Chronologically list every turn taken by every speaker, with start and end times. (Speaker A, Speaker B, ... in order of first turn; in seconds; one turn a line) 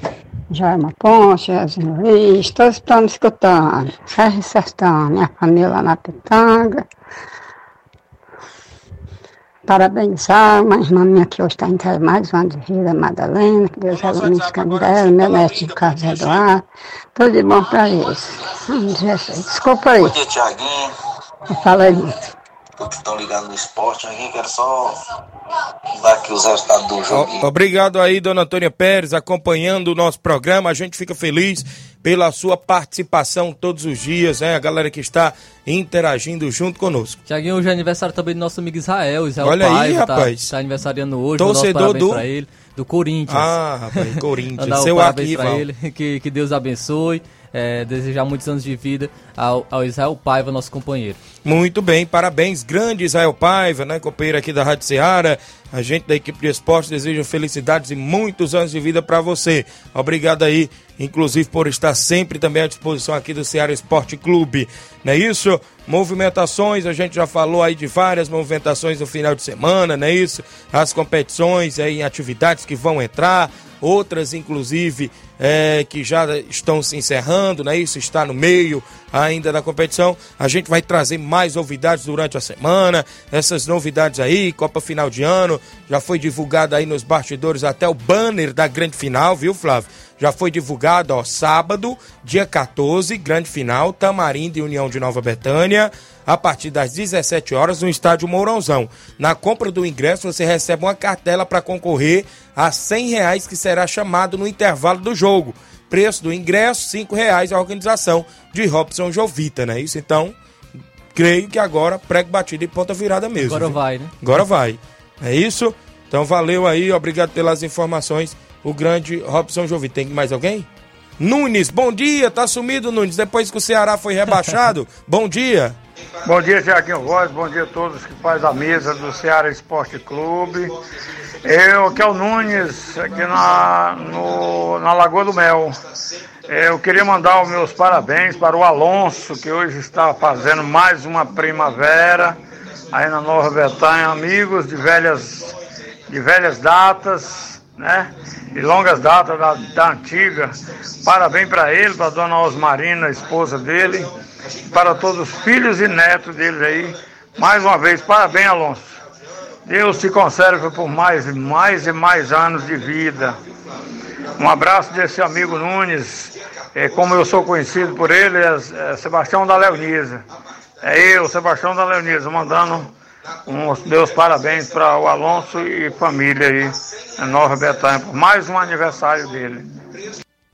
Speaker A: 0.5-6.8
Speaker A: 9.7-16.6
Speaker B: 14.0-16.4
Speaker A: 17.1-20.1
Speaker C: 20.0-20.9
Speaker A: 21.5-22.2
Speaker C: 22.8-25.0
Speaker C: 25.9-27.4
Speaker B: 27.1-37.2
Speaker D: 37.3-51.2
Speaker B: 39.4-40.5
Speaker B: 41.4-42.2
Speaker B: 43.3-45.6
Speaker B: 51.4-110.3
Speaker B: 111.1-120.7
Speaker D: 113.4-114.1
Speaker B: 121.2-125.8
Speaker E: 126.2-130.7
Speaker E: 131.4-135.8
Speaker E: 136.5-142.4
Speaker E: 142.9-145.5
Speaker E: 146.1-154.1
Speaker E: 154.7-158.9
Speaker E: 159.7-163.4
Speaker E: 164.4-170.2
Speaker E: 170.8-172.9
Speaker E: 173.5-179.6